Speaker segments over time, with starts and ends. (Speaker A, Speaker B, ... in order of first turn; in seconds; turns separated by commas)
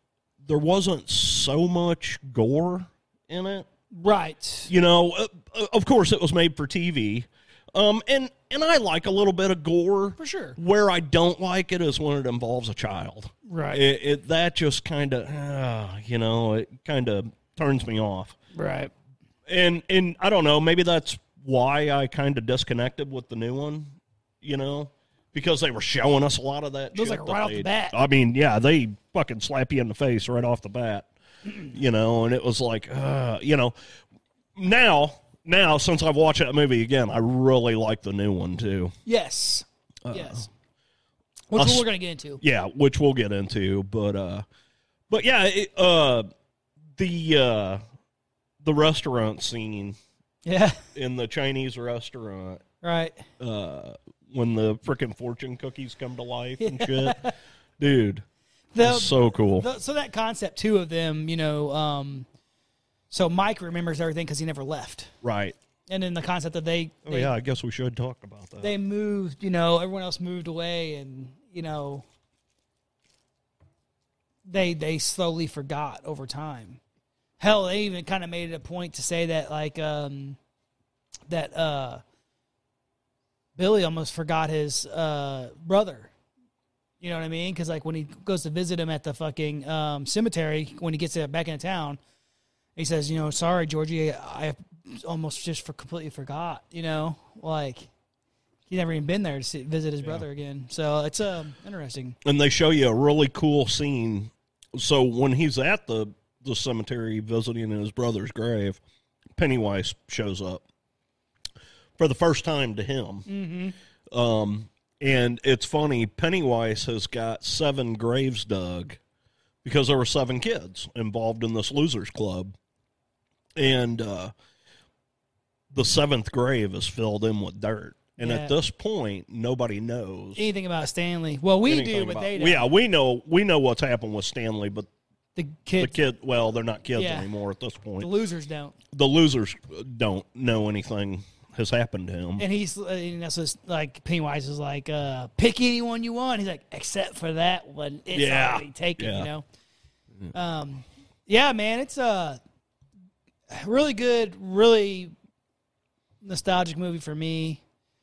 Speaker A: 0.4-3.6, Speaker B: 4.0-4.7, Speaker A: 4.7-18.3, Speaker B: 10.2-10.6, Speaker B: 13.5-13.8, Speaker B: 18.5-18.9, Speaker A: 19.5-31.1, Speaker B: 26.9-28.0, Speaker A: 31.6-33.7, Speaker A: 34.5-38.9, Speaker B: 39.0-40.5, Speaker A: 40.0-40.5, Speaker B: 41.5-42.4, Speaker A: 41.5-41.9, Speaker A: 42.4-44.4, Speaker A: 45.1-46.2, Speaker A: 47.0-47.8, Speaker A: 48.6-50.0, Speaker B: 50.5-50.8, Speaker A: 50.9-52.6, Speaker B: 52.8-53.2, Speaker A: 53.4-57.2, Speaker B: 56.6-57.3, Speaker A: 57.8-58.2, Speaker B: 58.7-62.3, Speaker A: 58.8-59.7, Speaker B: 63.1-65.1, Speaker A: 65.2-65.5, Speaker B: 65.9-67.3, Speaker A: 67.0-68.7, Speaker B: 68.6-72.0, Speaker B: 74.5-76.8, Speaker B: 77.4-80.4, Speaker B: 81.3-82.0, Speaker B: 83.5-86.1, Speaker B: 87.0-92.0, Speaker B: 92.8-97.9, Speaker B: 98.7-102.2, Speaker A: 102.2-108.8, Speaker A: 109.3-110.6, Speaker A: 112.0-113.2, Speaker B: 113.2-113.7, Speaker A: 114.1-119.0, Speaker A: 119.6-122.5, Speaker A: 123.5-124.3, Speaker A: 125.7-130.5, Speaker B: 128.2-128.5, Speaker B: 130.3-132.7, Speaker A: 131.7-134.9, Speaker B: 135.3-135.9, Speaker A: 135.8-138.1, Speaker B: 136.9-137.3, Speaker B: 138.0-138.7, Speaker A: 138.9-142.4, Speaker B: 142.4-149.4, Speaker A: 148.1-149.3, Speaker B: 150.3-152.4, Speaker B: 153.5-155.1, Speaker B: 156.2-157.6